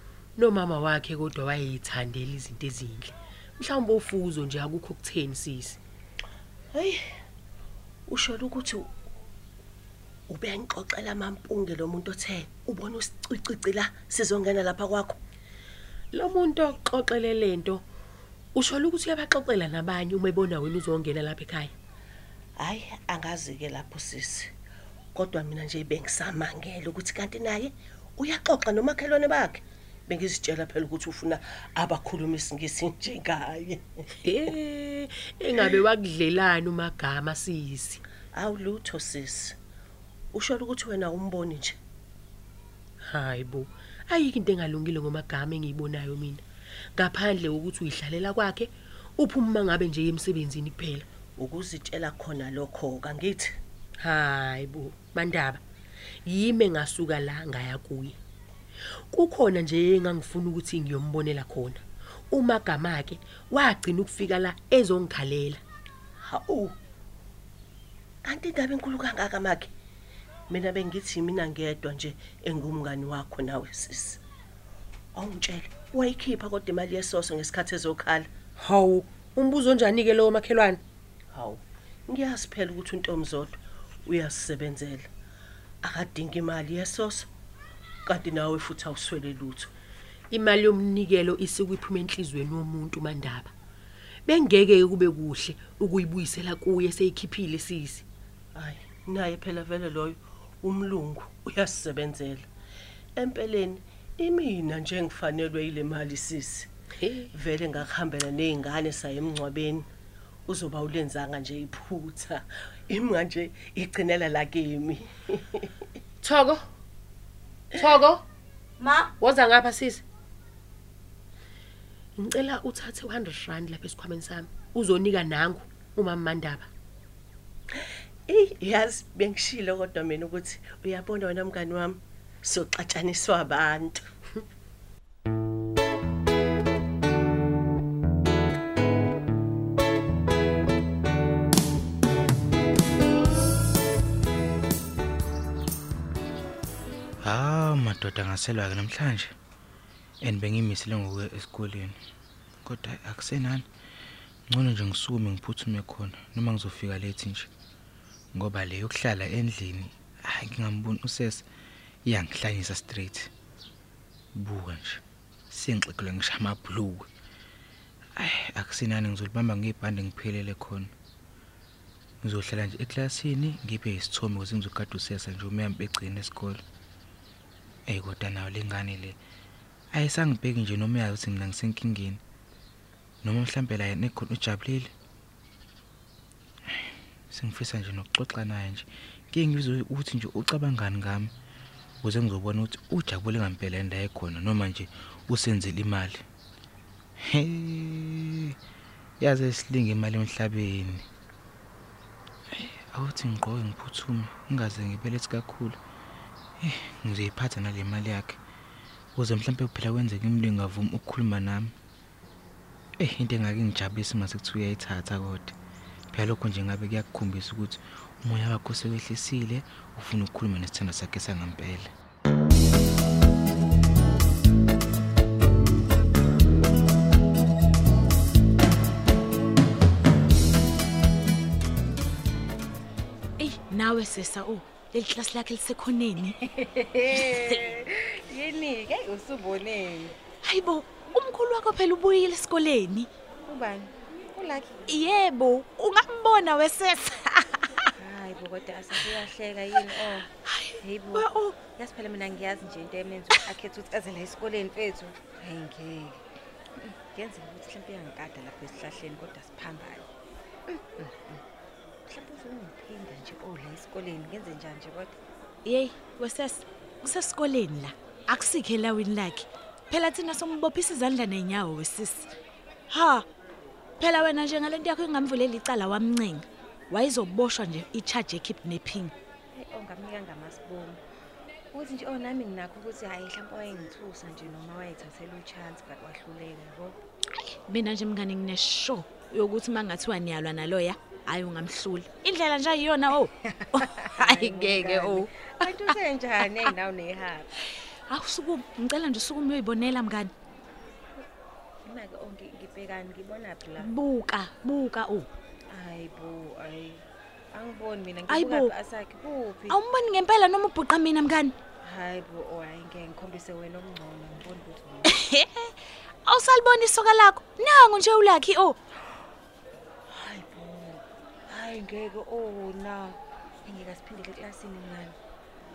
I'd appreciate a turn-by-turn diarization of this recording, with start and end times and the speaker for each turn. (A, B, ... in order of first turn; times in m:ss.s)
0:00.4-0:05.8 A
0:06.7-0:07.0 B
0:08.1-0:08.9 B
0:10.3-0:15.2 B
0:16.1-0:17.8 A
0:18.5-0:21.7 A
0:22.6-0:24.5 B
0:25.1-0:33.8 B
0:34.2-0:38.0 A
0:38.3-0:39.6 B
0:40.3-0:41.8 B
0:43.1-0:46.4 A
0:47.0-0:51.0 A
0:51.4-0:53.6 B
0:54.0-0:55.6 A
0:56.2-0:58.2 A
0:59.1-1:05.6 A
1:06.2-1:06.8 B
1:08.2-1:09.7 B
1:10.5-1:14.2 B
1:15.1-1:18.3 B
1:18.6-1:20.8 A
1:21.3-1:25.1 B
1:25.8-1:27.3 B
1:28.0-1:29.7 B
1:30.3-1:33.5 A
1:34.2-1:38.0 A
1:38.5-1:42.4 B
1:43.2-1:46.7 B
1:47.0-1:47.3 A
1:47.3-1:49.9 B
1:50.4-1:55.7 B
1:56.2-1:56.6 A
1:57.7-1:58.2 A
1:59.2-2:00.0 A
2:02.2-2:06.7 A
2:08.3-2:14.0 B
2:27.2-2:29.3 C
2:30.2-2:32.0 C
2:32.6-2:33.6 C
2:34.5-2:37.5 C
2:38.3-2:41.4 C
2:42.0-2:43.3 C
2:44.3-2:47.1 C
2:48.2-2:50.9 C
2:52.2-2:56.6 C
2:57.9-2:59.2 C
2:59.9-3:02.2 C
3:03.2-3:04.9 C
3:06.7-3:11.3 C
3:12.0-3:16.2 C
3:17.2-3:18.6 C
3:19.2-3:21.0 C
3:22.5-3:25.8 C
3:26.6-3:28.4 C
3:29.1-3:31.7 C
3:33.0-3:35.5 C
3:36.1-3:41.9 C
3:53.4-3:56.4 D
3:56.4-4:00.2 E
3:57.1-3:57.6 D
4:00.4-4:03.1 D
4:03.4-4:04.9 E
4:04.9-4:07.9 D
4:07.9-4:16.2 E
4:10.4-4:11.6 D
4:16.8-4:20.1 E
4:20.7-4:21.4 E
4:22.1-4:25.2 E
4:25.6-4:32.3 D
4:32.9-4:33.2 D
4:34.0-4:39.1 D
4:39.5-4:41.0 E
4:41.7-4:47.0 E
4:47.4-4:55.9 D
4:53.5-4:57.5 E
4:58.1-5:00.3 D
5:01.8-5:03.9 E
5:03.8-5:05.3 D
5:05.7-5:09.8 E
5:08.3-5:08.7 D
5:09.7-5:11.5 D
5:11.8-5:15.1 E
5:15.0-5:18.8 D
5:20.1-5:25.2 E